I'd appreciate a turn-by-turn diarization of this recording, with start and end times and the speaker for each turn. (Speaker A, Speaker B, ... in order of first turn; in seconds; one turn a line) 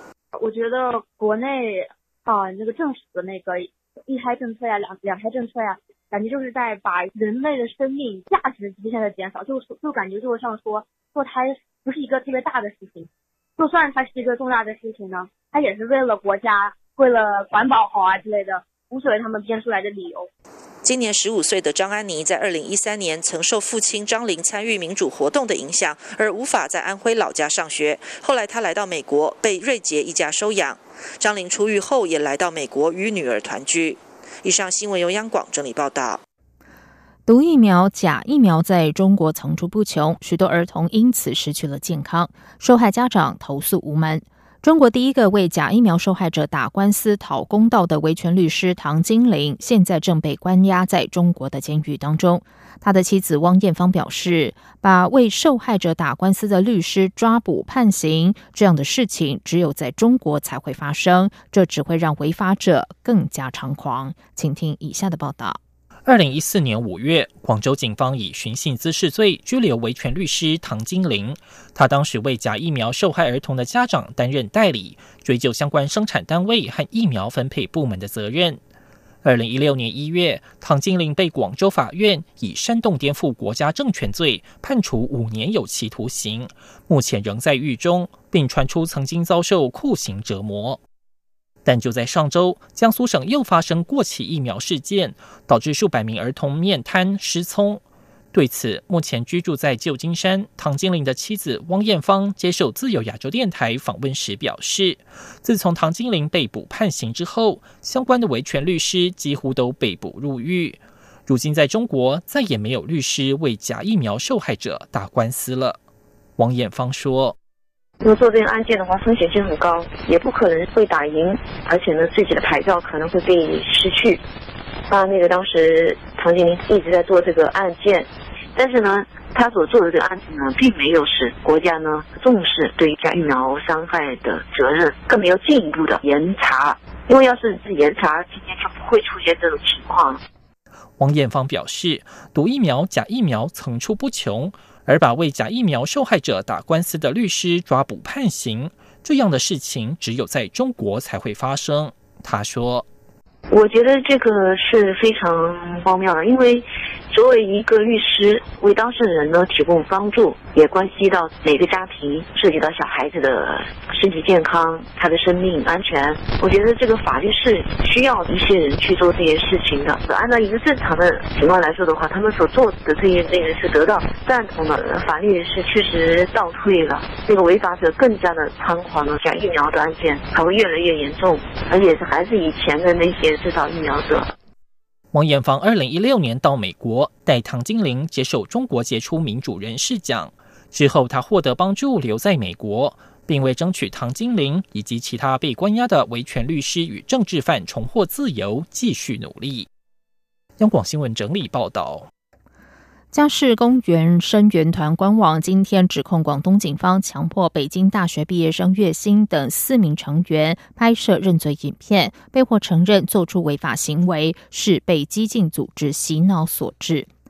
Speaker A: 0.4-20.3
Speaker B: 20.8-36.2
Speaker C: 37.3-65.6
Speaker D: 66.0-78.6
Speaker D: 79.2-90.8
Speaker D: 91.7-115.8
Speaker D: 116.4-117.3
Speaker E: 118.0-124.2
Speaker E: 124.9-140.2
Speaker D: 141.0-152.9
Speaker E: 153.5-184.3
Speaker D: 185.1-199.7
Speaker D: 200.6-202.1
Speaker C: 203.1-217.1